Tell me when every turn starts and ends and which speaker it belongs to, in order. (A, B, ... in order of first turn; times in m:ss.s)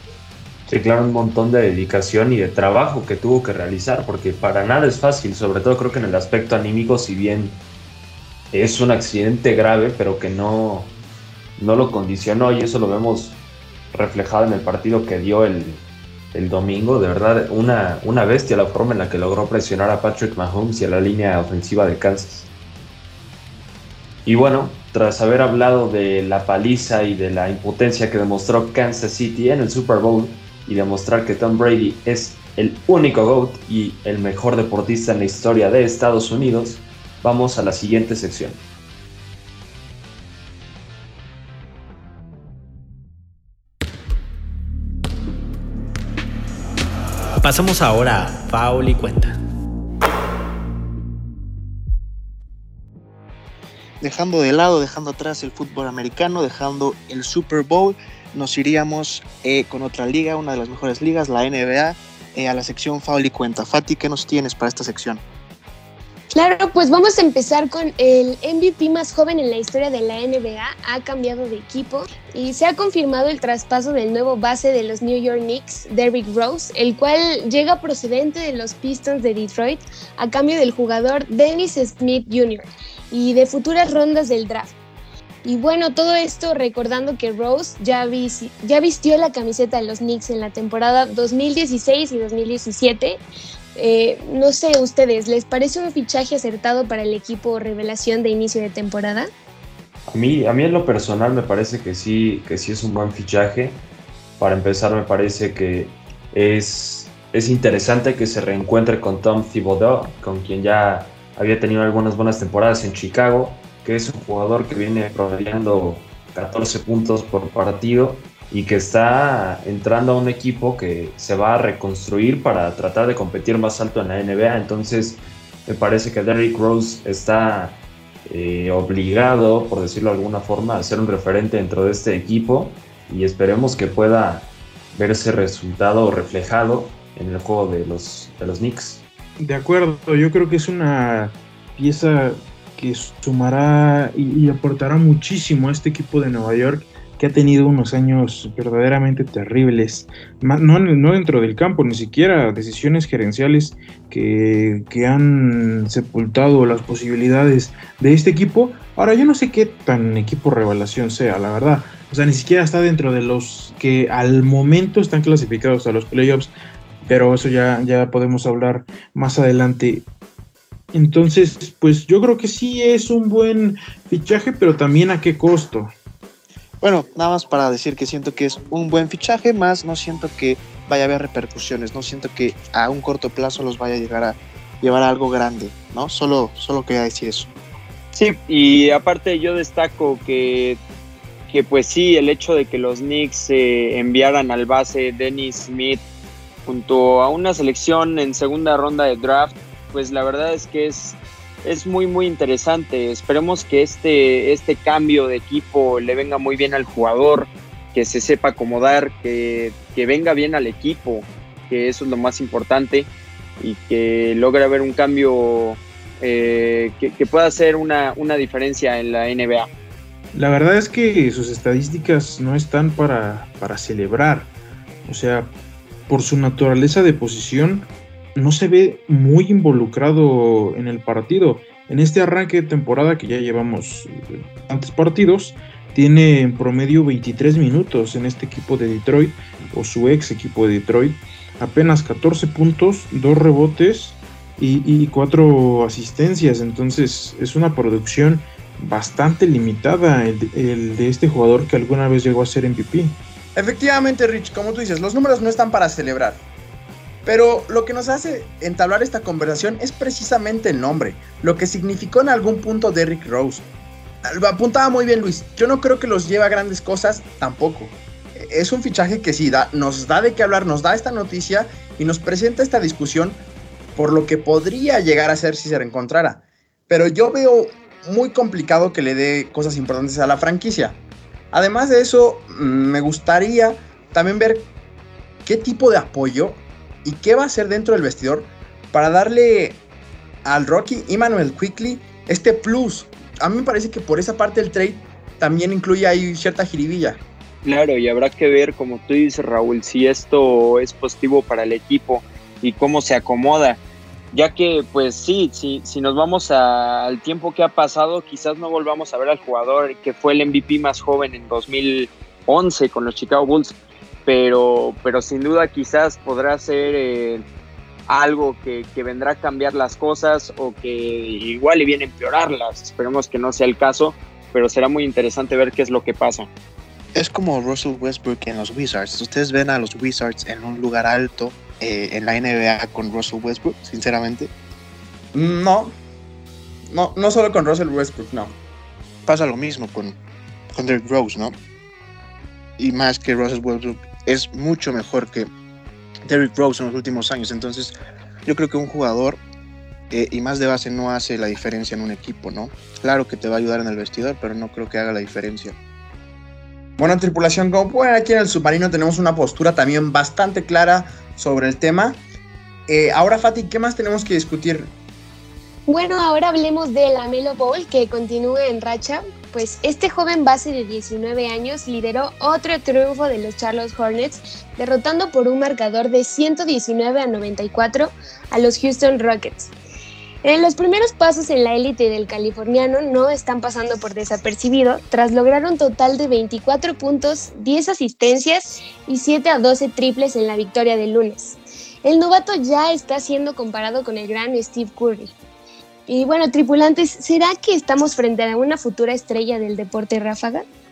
0:00.7-0:07.6 A
0:08.5-0:10.9 A
0:11.6-0:13.4 A
0:13.9-0:15.8 A
0:16.3-0:22.5 A
0:24.2-0:38.6 A
0:47.4-0:49.4 B
0:54.0-1:05.2 C
1:06.3-1:24.8 D
1:25.4-1:33.2 D
1:33.8-1:39.3 D
1:40.1-1:43.8 A
1:44.4-2:19.0 A
2:19.4-2:46.5 E
2:47.1-2:50.1 E
2:50.9-2:55.9 E
2:56.8-3:07.5 C
3:08.1-3:10.8 F
3:11.5-3:16.0 F
3:16.7-3:39.7 F
3:40.3-3:44.5 E
3:45.1-3:45.5 E
3:46.1-4:13.2 E
4:13.6-4:16.4 G
4:17.2-4:23.7 G
4:24.2-4:33.4 G
4:34.0-4:41.0 G
4:41.5-4:44.7 G
4:45.4-4:49.8 G
4:50.4-4:57.2 G
4:57.6-5:03.8 F
5:04.3-5:17.4 F
5:18.1-5:26.5 F
5:27.2-5:34.5 C
5:35.3-5:35.9 G
5:36.9-5:38.6 G
5:39.3-5:40.2 C
5:40.7-5:41.5 C
5:42.8-5:45.5 C
5:46.3-5:47.9 C
5:48.4-5:49.4 C
5:50.1-5:55.8 C
5:57.0-6:02.2 G
6:02.9-6:04.9 G
6:05.9-6:19.7 D
6:20.4-6:35.3 D
6:36.1-6:40.6 D